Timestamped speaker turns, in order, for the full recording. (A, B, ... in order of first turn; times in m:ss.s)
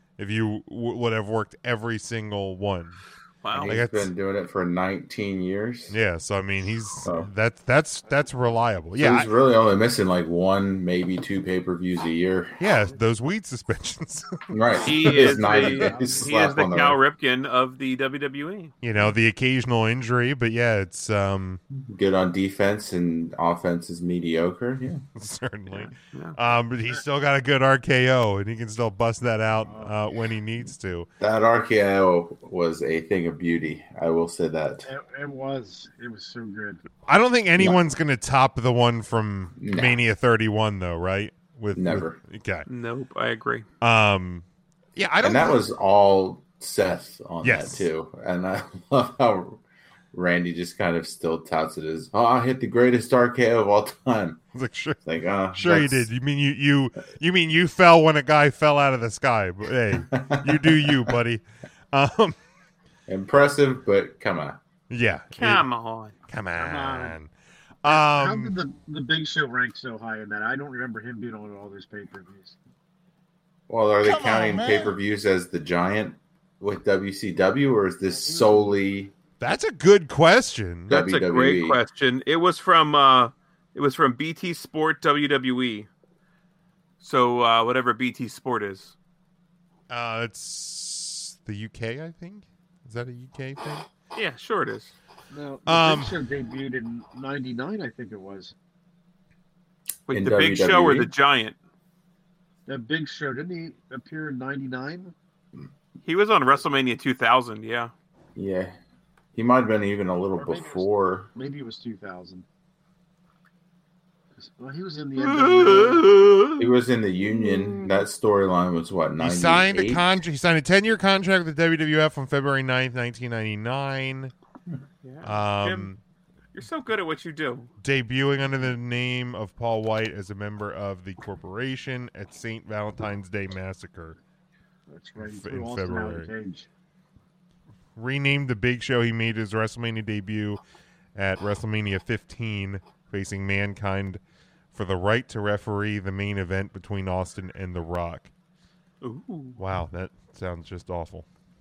0:00.2-0:03.0 A
0:03.4-0:03.8 B
0:03.5-0:05.9 C
0:03.6-0:04.1 A
0:05.9-0:09.3 A
0:09.0-0:12.6 C
0:12.6-0:14.5 A
0:14.5-0:17.0 C
0:14.8-0:19.2 B
0:15.0-0:16.7 D
0:18.8-0:21.6 A
0:21.8-0:25.0 C
0:25.2-0:31.1 A
0:25.7-0:26.4 B
0:29.6-0:30.0 D
0:31.2-0:34.9 C
0:34.9-0:36.8 D
0:37.1-0:42.7 A
0:39.6-0:40.0 C
0:41.8-0:42.2 C
0:42.7-0:43.7 B
0:43.8-0:44.4 A
0:45.0-0:45.6 A
0:45.2-0:49.6 C
0:47.4-0:47.9 A
0:50.1-0:54.4 C
0:54.6-0:55.0 A
0:55.0-0:56.1 C
0:55.5-1:02.4 A
1:00.0-1:01.2 C
1:03.1-1:04.6 C
1:04.9-1:05.7 A
1:05.4-1:06.1 B
1:06.3-1:07.3 A
1:06.6-1:07.2 D
1:07.8-1:08.6 A
1:07.8-1:12.6 D
1:13.7-1:19.1 C
1:14.2-1:14.9 A
1:18.1-1:18.8 D
1:19.4-1:20.9 A
1:20.9-1:25.9 B
1:20.9-1:21.8 C
1:27.0-1:29.0 B
1:29.9-1:33.8 A
1:34.2-1:34.9 B
1:35.3-1:38.6 D
1:35.7-1:36.1 A
1:40.1-1:41.6 B
1:40.1-1:41.1 C
1:42.7-1:45.1 D
1:46.0-1:47.9 B
1:48.4-1:48.8 C
1:49.4-1:51.3 C
1:50.4-1:52.4 D
1:54.4-1:56.0 D
1:55.2-1:56.7 B
1:56.6-2:00.2 C
1:57.2-1:58.1 B
1:59.2-2:04.3 A
2:05.0-2:05.9 B
2:05.2-2:06.0 A
2:06.5-2:07.7 B
2:07.8-2:14.2 A
2:14.9-2:16.7 D
2:15.2-2:16.3 A
2:18.0-2:20.6 A
2:21.2-2:24.2 A
2:24.7-2:28.3 A
2:29.0-2:29.6 B
2:29.6-2:31.3 A